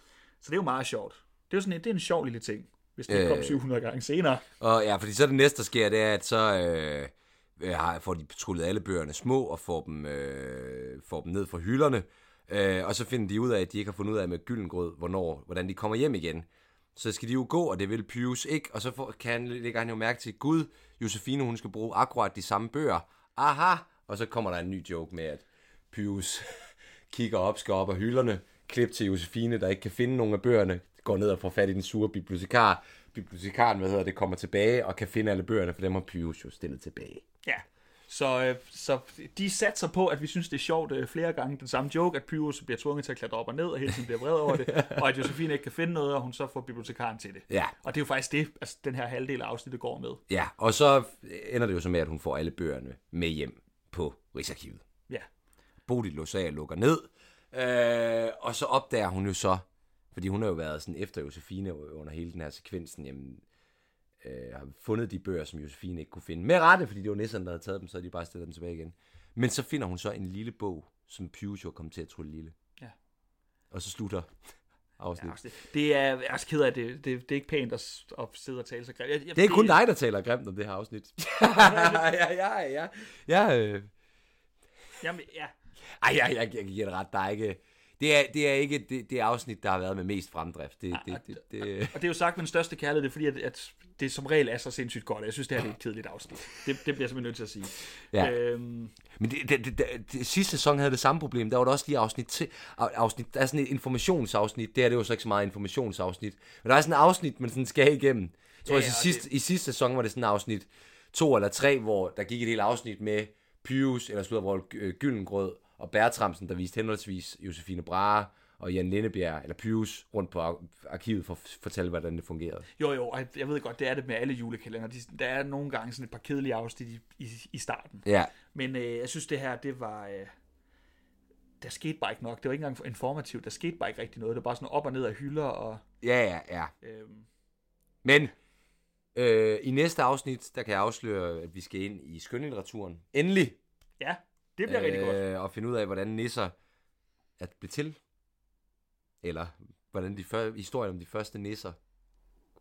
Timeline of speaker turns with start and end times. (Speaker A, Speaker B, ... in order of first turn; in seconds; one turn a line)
Speaker A: 0.4-4.4
Speaker B: 3.1-3.6
Speaker B: 4.6-37.2
Speaker A: 37.4-50.2
Speaker B: 44.7-45.0
Speaker B: 47.5-47.7
Speaker B: 50.3-54.8
Speaker B: 55.9-63.4
Speaker B: 64.2-72.5
Speaker B: 73.7-74.3
Speaker B: 75.0-75.3
Speaker A: 75.1-79.8
Speaker B: 79.3-83.9
Speaker A: 81.4-82.1
Speaker A: 85.0-85.5
Speaker B: 86.0-91.9
Speaker A: 90.9-98.9
Speaker B: 99.2-122.7
Speaker A: 108.6-109.2
Speaker A: 122.8-130.3
Speaker B: 128.0-128.3
Speaker A: 131.6-135.8
Speaker B: 136.0-136.7
Speaker A: 136.8-137.3
Speaker B: 138.0-138.3
Speaker B: 139.1-143.6
Speaker A: 144.0-145.2
Speaker B: 144.7-146.5
Speaker B: 147.4-148.0
Speaker B: 149.2-151.8